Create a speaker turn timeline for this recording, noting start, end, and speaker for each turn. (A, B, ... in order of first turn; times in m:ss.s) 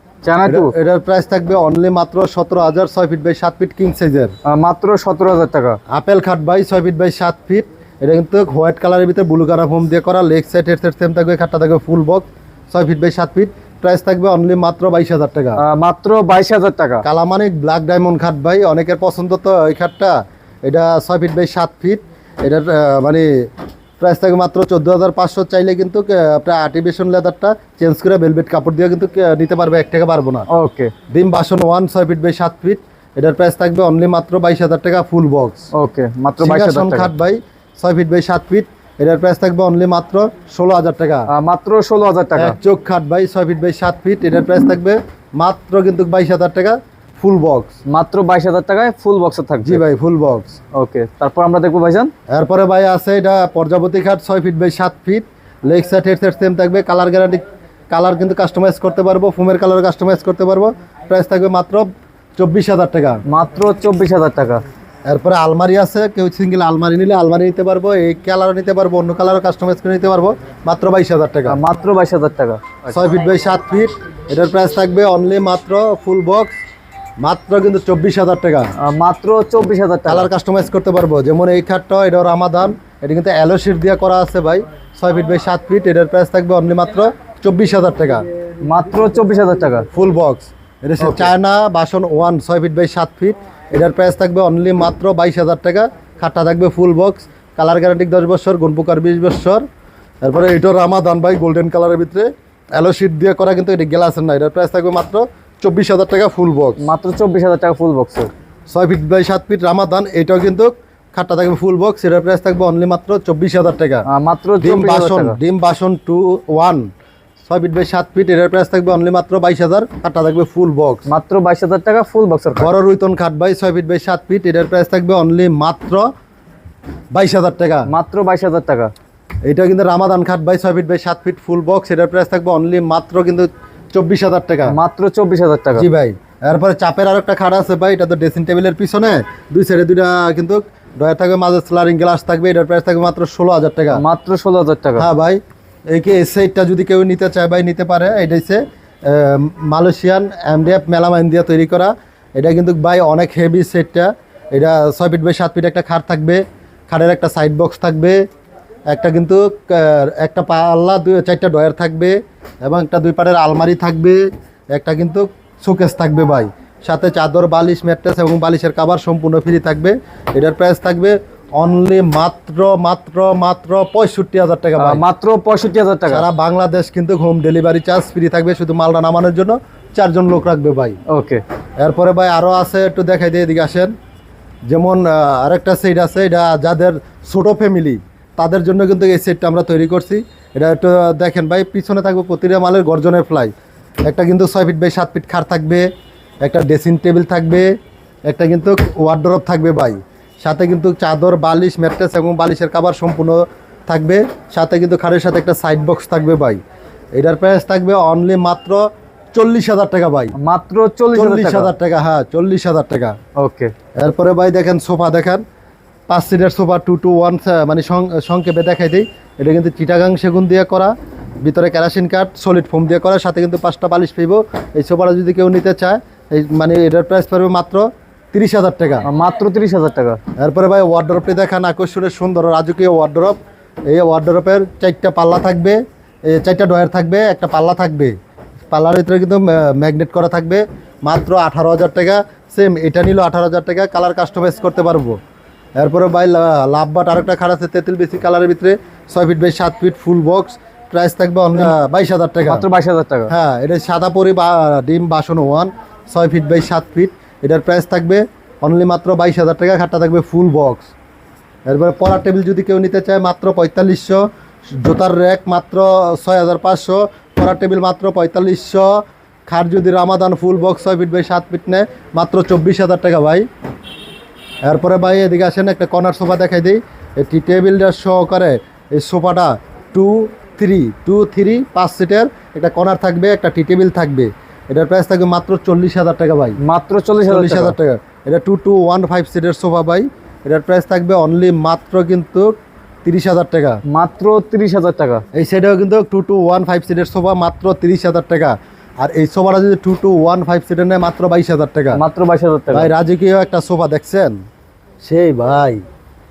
0:00.2-0:00.7 A
0:00.4-0:04.3 B
0:04.5-0:05.8 A
0:05.9-0:15.6 B
0:15.6-0:17.0 A
0:17.0-0:20.1 B
0:20.6-0:23.3 B
0:24.0-0:30.5 B
0:30.5-0:30.9 A
0:31.1-0:35.7 B
0:35.7-0:37.1 A
0:36.4-0:41.3 B
0:41.3-0:42.6 A
0:42.4-0:47.7 B
0:47.9-0:49.8 A
0:49.6-0:50.6 B
0:50.7-0:52.1 A
0:52.3-1:03.2 B
1:03.3-1:04.6 A
1:05.1-1:11.6 B
1:11.5-1:13.0 A
1:12.9-1:16.6 B
1:17.2-1:18.7 B
1:18.8-1:20.3 A
1:20.1-1:28.2 B
1:28.6-1:29.9 A
1:29.9-1:39.6 B
1:31.0-1:31.3 A
1:40.2-1:46.8 B
1:46.8-1:48.3 A
1:48.7-1:54.1 B
1:54.1-1:55.4 A
1:54.6-1:56.8 B
1:57.4-2:01.0 B
2:01.1-2:02.7 A
2:02.6-2:06.0 B
2:07.1-2:07.9 B
2:07.9-2:08.9 A
2:09.5-2:14.8 B
2:14.7-2:15.9 A
2:15.8-2:24.0 B
2:23.9-2:25.1 A
2:25.0-2:38.2 B
2:38.9-2:55.0 B
2:54.8-2:56.3 A
2:56.1-3:01.0 B
3:01.1-3:01.4 A
3:01.8-3:03.9 B
3:04.7-3:13.5 B
3:14.0-3:15.9 B
3:16.4-3:17.7 B
3:18.3-3:26.6 B
3:27.1-3:30.3 B
3:30.4-3:31.7 A
3:31.1-3:33.2 B
3:33.4-3:33.7 A
3:34.0-3:35.4 B
3:36.1-3:49.1 B
3:49.0-3:50.2 A
3:50.4-3:53.4 B
3:53.9-3:58.1 B
3:58.7-4:05.2 B
4:05.8-4:12.7 B
4:12.4-4:13.3 A
4:13.3-4:20.9 B
4:21.7-4:24.2 B
4:24.7-4:33.4 B
4:34.7-4:46.6 B
4:46.6-4:47.8 A
4:47.3-4:52.5 B
4:53.0-4:53.8 B
4:53.9-4:55.2 A
4:55.3-5:02.0 B
5:01.9-5:02.9 A
5:02.7-5:04.4 B
5:05.0-5:05.8 B